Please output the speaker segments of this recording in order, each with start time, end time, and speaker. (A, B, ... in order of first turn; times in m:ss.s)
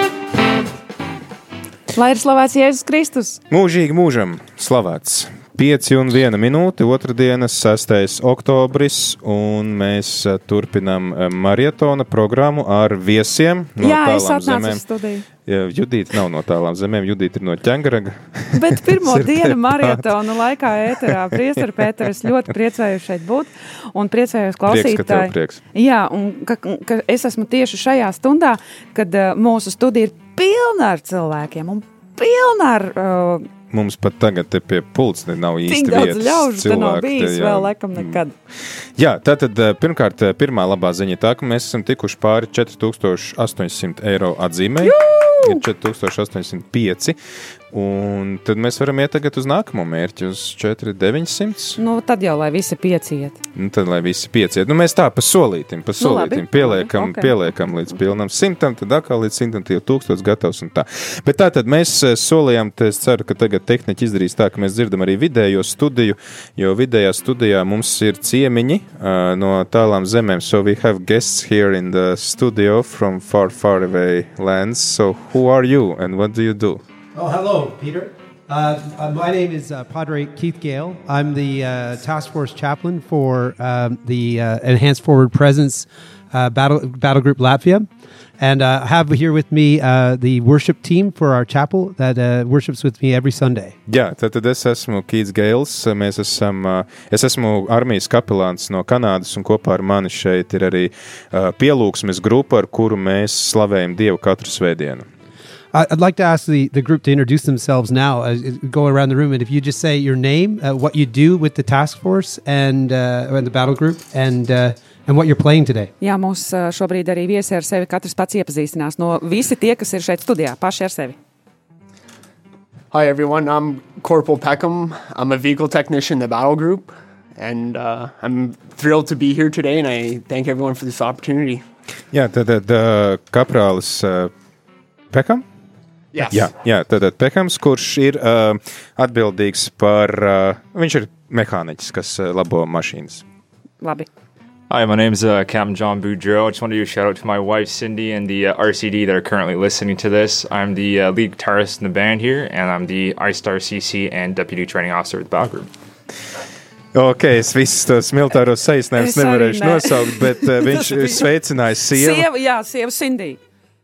0:01.9-0:03.4 A
0:03.5-0:14.8 B
0:13.8-0:15.3 A
0:15.4-0:20.1 B
0:18.5-0:33.5 A
0:24.7-0:25.6 B
0:33.7-0:38.2 B
0:35.7-0:38.3 A
0:38.8-0:47.2 B
0:44.8-0:45.6 A
0:47.7-0:51.8 B
0:51.8-0:53.4 A
0:53.6-1:16.8 B
0:56.0-0:57.9 A
1:17.2-1:27.9 C
1:28.4-1:33.8 C
1:33.9-1:45.1 B
1:45.7-1:55.9 C
1:56.0-2:01.2 A
2:02.9-2:11.7 D
2:12.1-2:14.3 B
2:15.1-2:15.5 B
2:16.1-2:16.5 D
2:16.3-2:23.2 B
2:23.8-2:24.1 A
2:24.7-2:35.7 E
2:36.9-2:42.3 B
2:39.0-2:41.3 A
2:41.9-2:43.4 A